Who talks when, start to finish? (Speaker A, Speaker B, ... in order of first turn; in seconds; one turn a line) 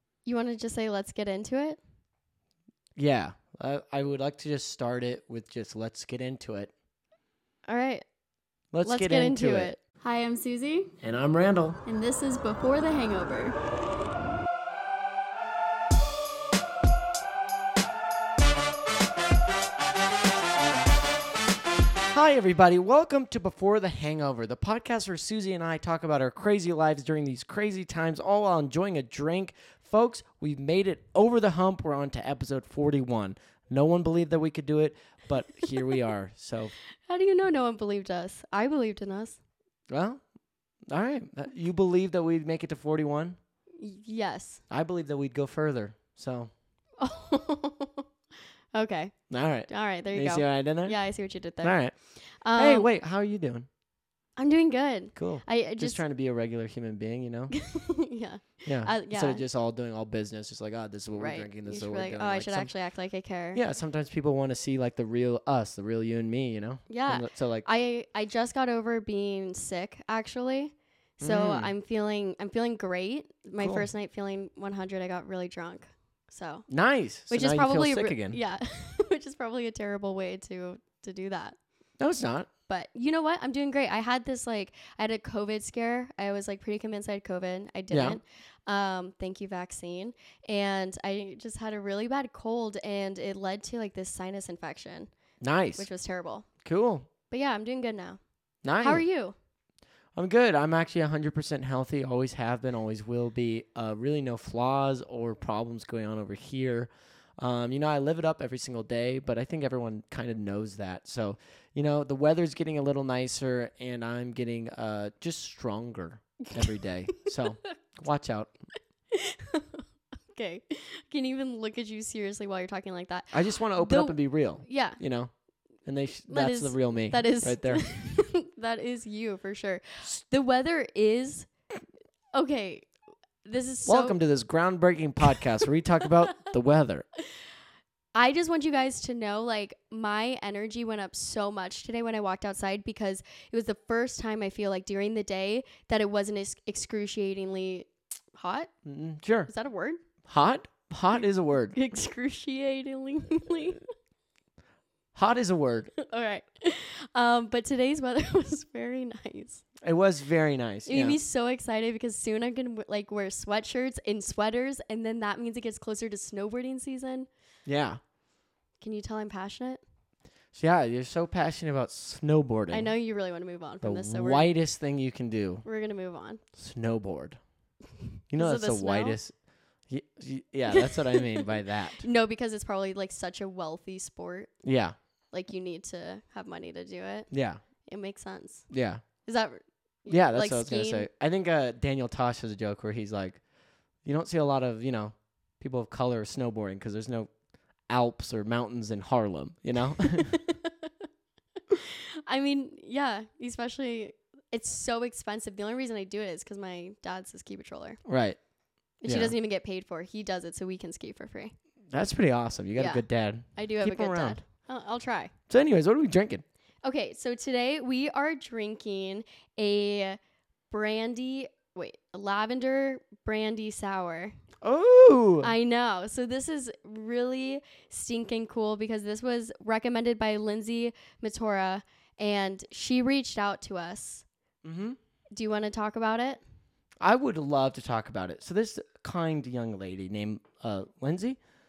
Speaker A: 0.2-1.8
Speaker B: 3.0-6.7
Speaker A: 7.7-8.0
Speaker B: 8.7-9.7
Speaker A: 8.8-10.9
Speaker B: 11.0-11.8
Speaker A: 11.9-13.6
Speaker B: 22.1-36.7
Speaker A: 37.1-39.4
Speaker B: 39.9-40.2
Speaker B: 40.9-43.4
Speaker A: 43.8-44.6
Speaker B: 44.7-46.5
Speaker A: 47.0-48.1
Speaker A: 48.7-49.2
Speaker B: 49.3-51.0
Speaker A: 49.7-51.8
Speaker B: 51.6-51.9
Speaker A: 52.4-52.9
Speaker B: 52.6-53.7
Speaker A: 54.4-56.0
Speaker B: 55.2-57.5
Speaker A: 57.5-59.5
Speaker B: 58.6-62.7
Speaker A: 61.2-63.6
Speaker B: 63.5-67.7
Speaker A: 66.9-76.7
Speaker B: 71.2-71.7
Speaker B: 73.6-73.9
Speaker B: 76.7-78.4
Speaker A: 77.3-81.6
Speaker B: 82.0-82.5
Speaker A: 82.7-95.1
Speaker B: 87.9-88.2
Speaker B: 95.4-95.9
Speaker A: 95.8-96.5
Speaker B: 96.7-97.1
Speaker A: 97.3-98.2
Speaker B: 98.6-99.0
Speaker A: 98.8-99.3
Speaker B: 100.2-118.5
Speaker A: 119.1-125.0
Speaker B: 123.3-125.3
Speaker B: 125.8-127.9
Speaker A: 126.3-131.5
Speaker A: 132.3-132.9
Speaker A: 133.4-134.2
Speaker B: 133.8-137.1
Speaker A: 138.1-148.7
Speaker B: 148.8-149.5
Speaker A: 149.5-150.0
Speaker B: 150.3-151.8
Speaker A: 151.8-153.9
Speaker B: 155.2-155.9
Speaker A: 156.0-159.6
Speaker B: 159.8-161.2
Speaker A: 160.9-167.3
Speaker B: 167.7-168.0
Speaker A: 168.8-169.8
Speaker B: 170.5-172.9
Speaker A: 172.7-174.5
Speaker B: 173.8-175.6
Speaker A: 175.6-176.4
Speaker B: 176.6-177.4
Speaker B: 178.3-179.3
Speaker A: 178.3-179.2
Speaker B: 179.9-182.0
Speaker A: 180.7-184.5
Speaker B: 184.6-184.9
Speaker A: 185.3-187.3
Speaker B: 187.3-187.6
Speaker A: 187.9-188.7
Speaker B: 188.7-189.0
Speaker A: 189.2-191.1
Speaker B: 190.1-193.4
Speaker B: 194.1-197.3
Speaker B: 197.9-200.4
Speaker A: 200.0-200.9
Speaker A: 201.7-208.0
Speaker B: 208.1-208.4
Speaker A: 209.0-211.5
Speaker B: 209.1-209.3
Speaker B: 211.9-214.4
Speaker A: 212.8-213.0
Speaker A: 213.6-215.3
Speaker B: 215.5-216.4
Speaker A: 216.8-220.2
Speaker A: 220.7-224.3
Speaker B: 224.6-225.5
Speaker A: 225.4-234.2
Speaker B: 234.6-235.0
Speaker A: 235.3-236.4
Speaker B: 237.0-241.4